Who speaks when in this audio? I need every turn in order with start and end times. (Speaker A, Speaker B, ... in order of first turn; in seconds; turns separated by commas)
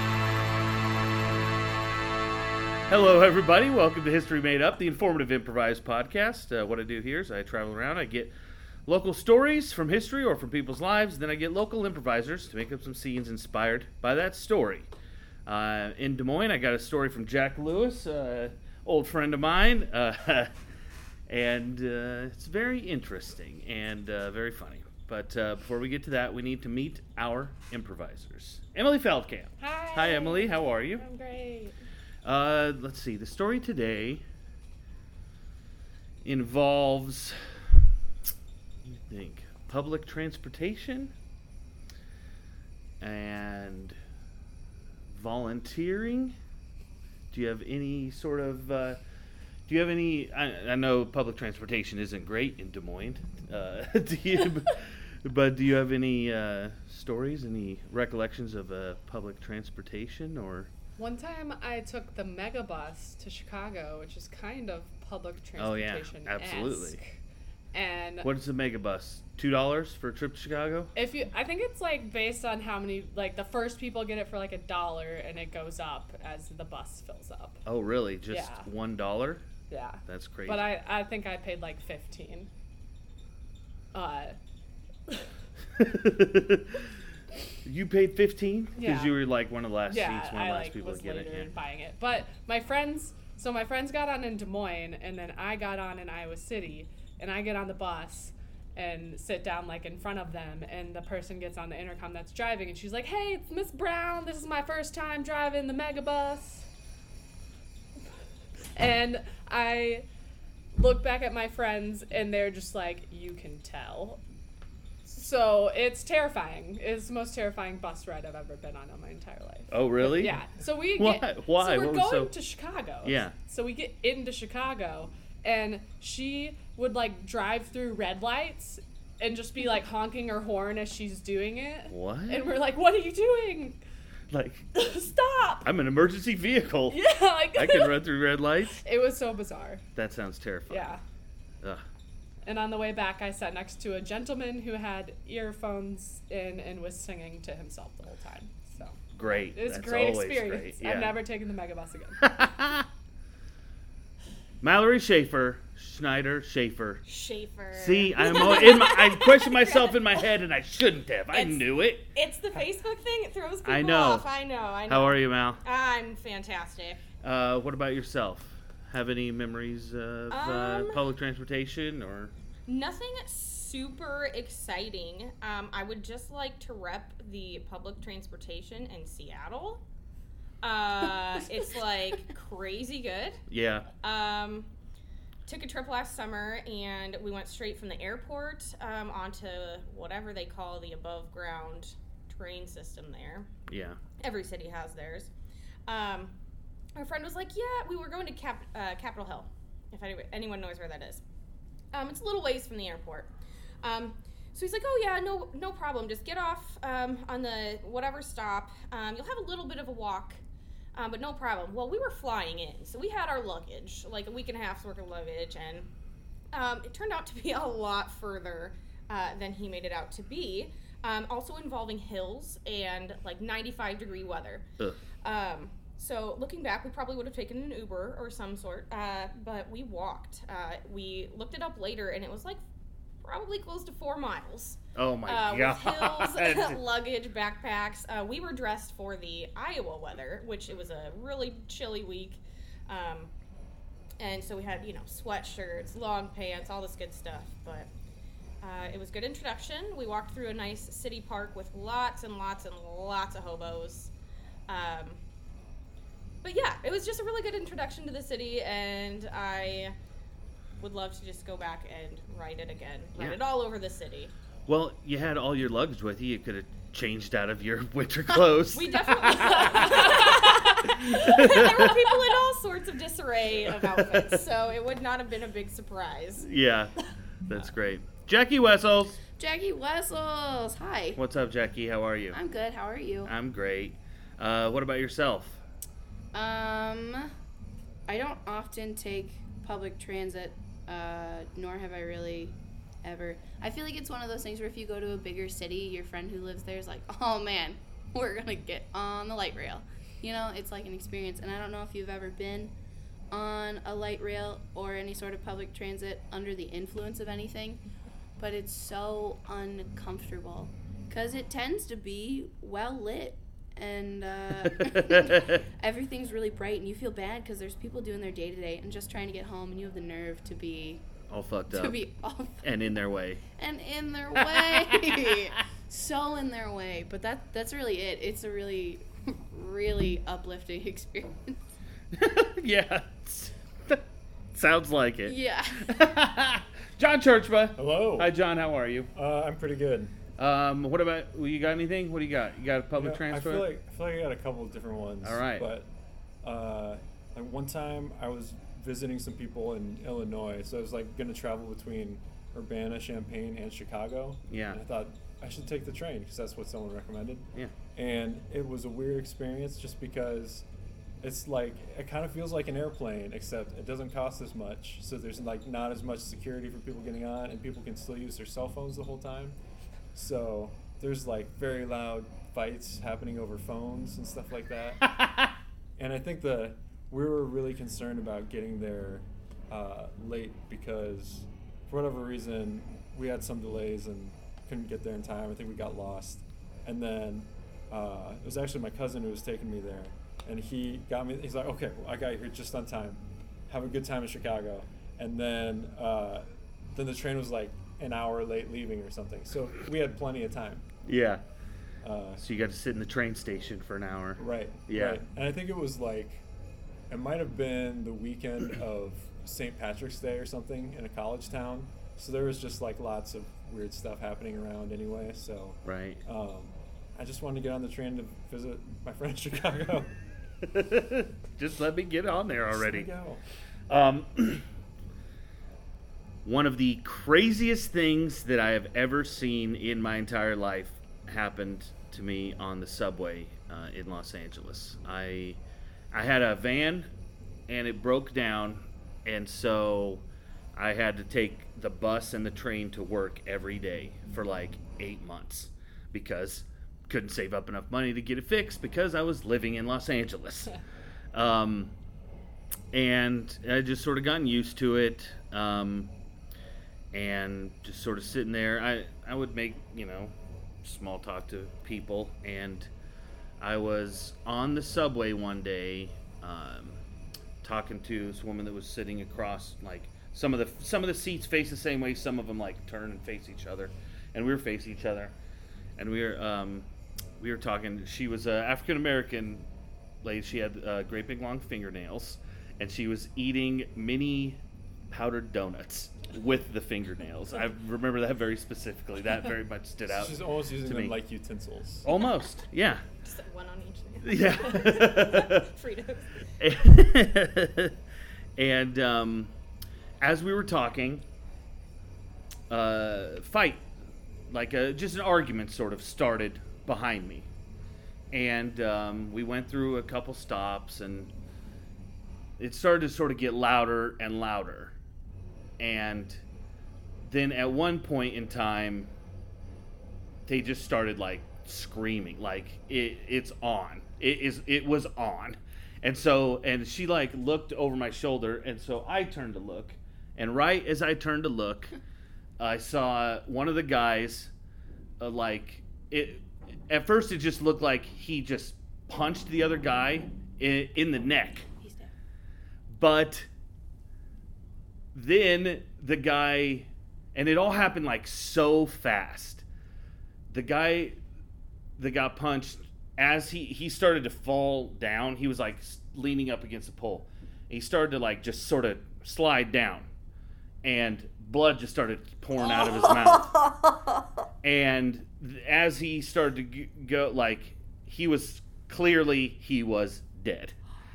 Speaker A: 2.9-8.3, Speaker A: 8.9-14.9, Speaker A: 15.5-20.5, Speaker A: 21.3-31.0, Speaker B: 29.6-31.8, Speaker A: 32.2-34.2, Speaker A: 36.2-37.4, Speaker A: 38.9-41.1, Speaker A: 43.0-44.0, Speaker A: 45.1-46.4, Speaker A: 47.3-49.0, Speaker A: 49.7-60.7, Speaker B: 61.0-67.2, Speaker A: 65.6-67.0, Speaker B: 67.7-68.3, Speaker A: 68.2-70.9, Speaker B: 71.0-77.6, Speaker A: 77.7-79.4, Speaker B: 78.3-78.7, Speaker B: 79.7-82.5, Speaker A: 80.1-80.7, Speaker B: 83.9-84.4, Speaker A: 85.8-86.8, Speaker A: 87.7-91.5, Speaker B: 88.8-89.2, Speaker B: 89.9-106.7, Speaker B: 108.7-110.1, Speaker B: 110.7-114.2, Speaker B: 115.1-133.8, Speaker A: 119.7-120.4, Speaker A: 121.0-122.3, Speaker A: 123.0-123.3, Speaker A: 131.9-132.5, Speaker A: 134.3-134.7, Speaker B: 134.8-135.7, Speaker A: 135.6-137.0, Speaker B: 136.9-137.9, Speaker A: 137.5-138.8, Speaker B: 138.8-139.8, Speaker A: 140.0-141.0, Speaker B: 140.7-141.0, Speaker B: 142.4-149.0, Speaker A: 149.1-151.2, Speaker B: 149.5-152.3, Speaker A: 152.2-152.9, Speaker A: 154.6-157.0, Speaker C: 157.1-160.2, Speaker A: 157.7-162.1, Speaker C: 161.3-167.0, Speaker A: 163.7-164.3, Speaker A: 164.9-165.6, Speaker A: 167.2-172.3, Speaker C: 170.3-171.0, Speaker C: 172.7-179.8, Speaker C: 180.6-183.4, Speaker A: 183.5-183.9, Speaker C: 184.0-184.7, Speaker C: 185.5-193.5, Speaker A: 193.7-194.0, Speaker C: 194.2-195.3, Speaker C: 195.9-196.3, Speaker C: 196.9-201.2, Speaker C: 201.9-210.4, Speaker C: 210.9-215.9, Speaker C: 216.5-224.7, Speaker C: 225.2-232.6, Speaker C: 233.2-243.3, Speaker A: 234.9-236.8, Speaker C: 244.2-247.9, Speaker C: 248.6-254.1, Speaker C: 254.7-255.2, Speaker C: 256.4-259.9, Speaker C: 260.8-264.3, Speaker A: 264.7-272.1, Speaker C: 268.7-276.4, Speaker B: 269.8-270.4, Speaker A: 273.7-274.4, Speaker A: 276.4-279.2, Speaker D: 279.4-281.2, Speaker A: 281.2-282.4, Speaker D: 282.3-283.3, Speaker A: 283.3-285.6, Speaker D: 286.3-287.3, Speaker D: 288.1-302.7, Speaker D: 303.3-307.8, Speaker D: 308.4-321.0, Speaker A: 314.7-315.6, Speaker A: 321.3-322.1, Speaker D: 321.7-322.8, Speaker A: 322.6-323.4, Speaker D: 323.5-331.6, Speaker A: 324.4-325.5, Speaker A: 332.1-334.0, Speaker A: 334.5-339.1, Speaker D: 335.2-336.1, Speaker E: 337.8-338.3, Speaker E: 339.1-340.1, Speaker A: 340.4-343.7, Speaker E: 343.0-345.9, Speaker A: 345.2-345.7, Speaker E: 346.4-360.7, Speaker A: 354.5-354.8, Speaker E: 361.2-369.6, Speaker E: 370.1-375.1, Speaker A: 375.1-375.5, Speaker E: 376.0-400.9, Speaker A: 401.1-401.4, Speaker E: 402.0-402.4, Speaker A: 402.4-405.2, Speaker E: 404.4-406.4, Speaker E: 407.1-420.1, Speaker A: 415.9-416.2, Speaker A: 420.6-423.1, Speaker E: 422.7-423.4, Speaker A: 423.9-424.6, Speaker A: 426.4-435.6, Speaker A: 436.1-437.1, Speaker A: 437.7-440.2, Speaker A: 440.8-450.8, Speaker A: 451.3-451.9, Speaker A: 452.9-456.1, Speaker A: 457.1-462.9, Speaker A: 463.6-467.0, Speaker A: 467.6-475.3, Speaker A: 476.0-476.9, Speaker A: 477.4-479.7, Speaker A: 480.2-484.6, Speaker A: 485.1-491.1, Speaker E: 490.1-492.1, Speaker A: 492.0-493.0, Speaker C: 493.2-496.4, Speaker A: 494.2-495.7, Speaker A: 496.6-497.9, Speaker A: 498.6-499.5, Speaker A: 500.2-501.2, Speaker A: 502.7-503.8, Speaker A: 504.5-507.5, Speaker A: 508.3-511.3, Speaker A: 512.6-515.0, Speaker A: 515.8-516.4, Speaker A: 517.2-519.1, Speaker A: 520.5-532.0, Speaker A: 532.6-534.5, Speaker A: 535.2-541.7, Speaker D: 541.8-542.1, Speaker A: 542.9-543.5, Speaker A: 545.1-549.6, Speaker A: 550.5-551.2, Speaker A: 552.0-560.1, Speaker A: 560.8-563.6, Speaker D: 562.8-563.9, Speaker A: 564.6-570.8